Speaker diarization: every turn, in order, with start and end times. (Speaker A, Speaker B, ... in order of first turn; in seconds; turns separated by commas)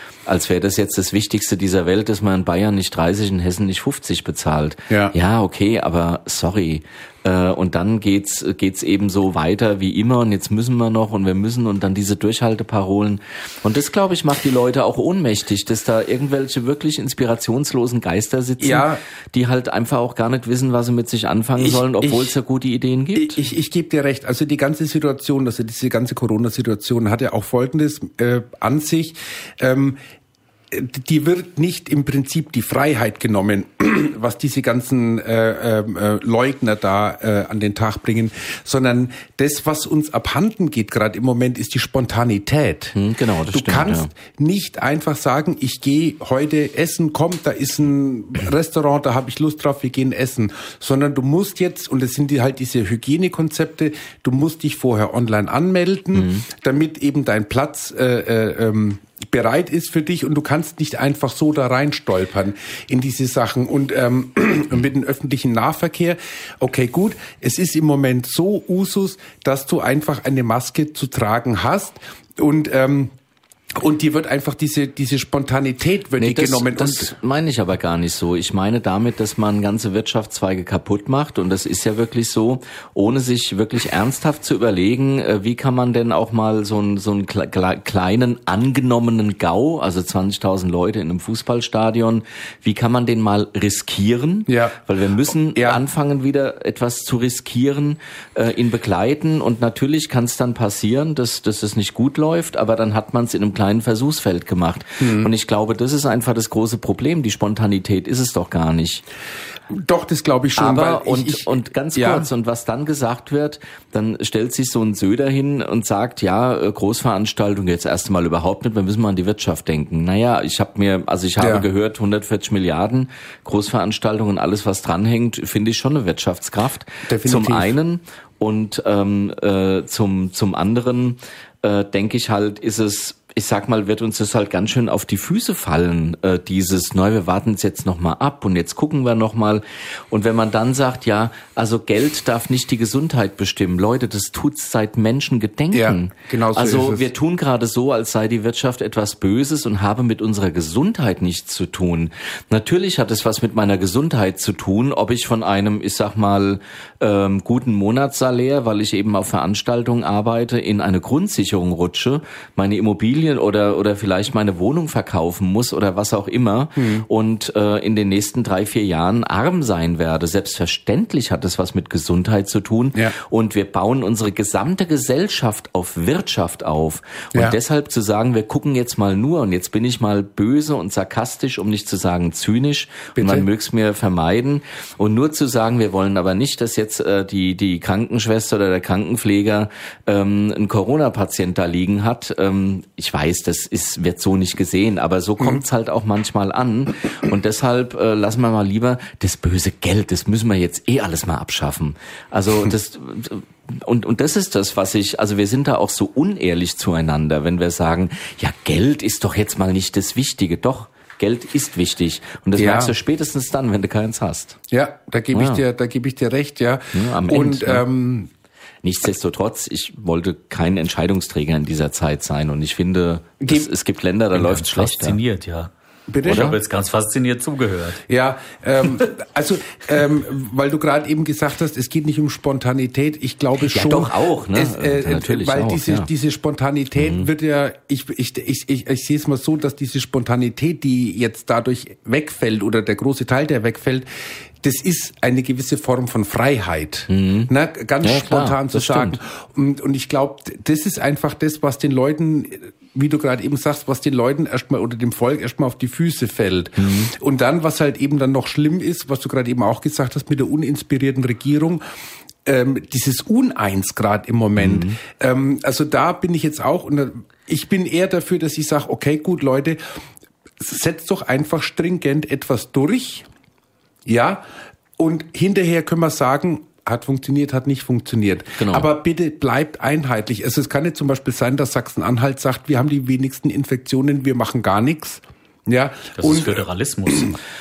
Speaker A: 0.3-23.4, Speaker B: 4.9-5.1, Speaker B: 18.6-19.0, Speaker B: 21.6-22.4, Speaker B: 23.1-30.0, Speaker B: 30.7-43.0, Speaker A: 43.0-44.1, Speaker B: 43.5-73.1, Speaker A: 56.1-56.5, Speaker B: 73.7-77.1, Speaker A: 76.2-109.0, Speaker B: 94.5-94.8, Speaker B: 95.5-95.8, Speaker B: 105.0-105.3, Speaker B: 109.7-112.3, Speaker A: 110.6-214.6, Speaker B: 121.4-121.7, Speaker B: 127.1-127.8, Speaker B: 145.7-147.1, Speaker B: 166.8-167.1, Speaker B: 183.2-183.5, Speaker B: 212.6-213.0, Speaker B: 214.7-218.3, Speaker A: 215.3-215.6, Speaker A: 216.9-217.9, Speaker A: 218.8-225.2, Speaker B: 223.4-223.7, Speaker C: 224.3-225.7, Speaker B: 226.1-226.6, Speaker C: 226.2-228.0, Speaker A: 226.2-226.6, Speaker B: 228.1-244.1, Speaker A: 233.7-236.1, Speaker A: 237.0-237.3, Speaker B: 244.6-261.8, Speaker A: 247.1-249.2, Speaker A: 256.8-257.1, Speaker B: 262.4-269.8, Speaker A: 264.6-265.0, Speaker B: 270.6-273.3, Speaker B: 274.1-274.5, Speaker B: 275.0-287.3, Speaker A: 278.6-278.9, Speaker C: 286.2-287.4